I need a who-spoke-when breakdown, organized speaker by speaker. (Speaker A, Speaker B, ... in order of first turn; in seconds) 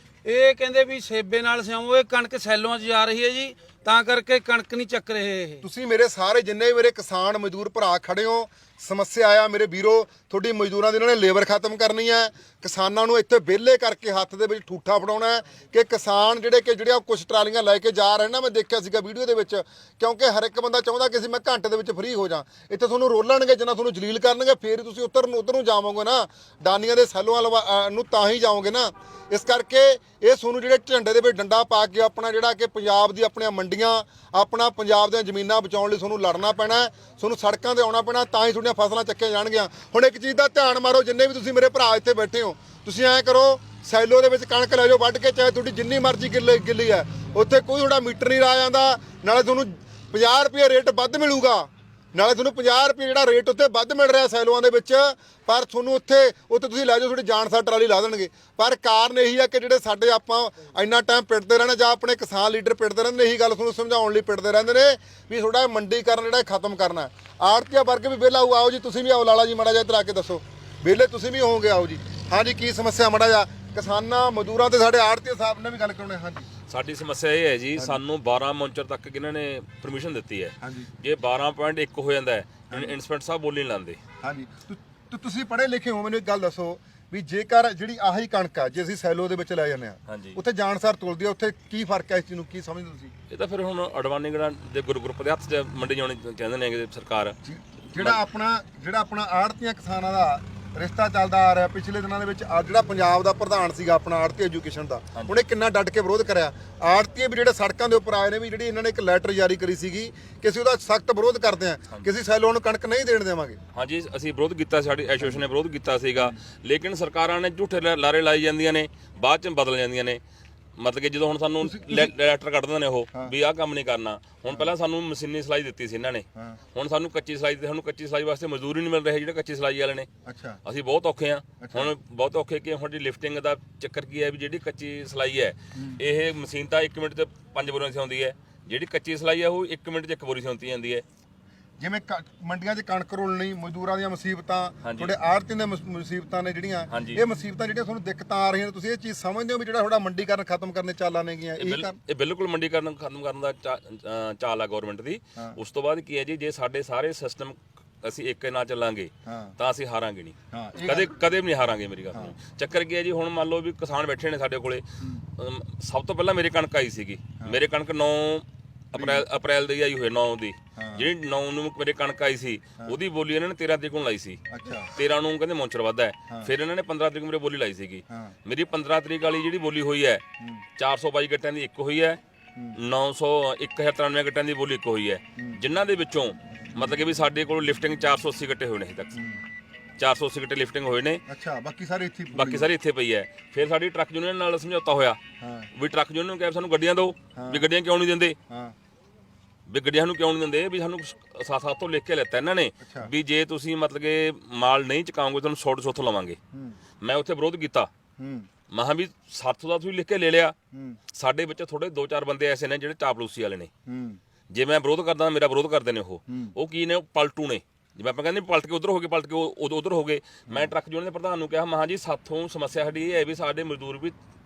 Speaker A: 0.2-5.6
Speaker B: 5.6-76.5, 80.6-80.9, 84.2-93.1, 97.5-113.6, 121.6-122.1, 130.2-130.6, 131.6-131.9, 141.8-151.9, 159.3-159.5, 160.5-161.1, 168.9-169.2, 170.8-171.1, 174.5-174.9, 191.3-192.7, 195.4-195.7, 197.3-197.7, 198.5-198.7, 202.8-203.1, 206.5-206.8, 208.2-208.5, 210.7-211.0, 213.9-214.2, 216.3-216.6
Speaker C: 76.7-84.0, 90.1-90.4, 93.3-97.3, 113.7-120.2, 120.8-130.1, 130.6-141.0, 144.8-145.1, 146.9-147.2, 151.6-164.8, 165.4-174.4, 174.9-180.2, 180.8-182.2, 182.8-189.2, 190.0-191.2, 192.3-195.2, 195.7-198.4, 199.7-206.4, 207.0-207.9, 208.7-210.5, 211.1-213.7, 214.5-224.1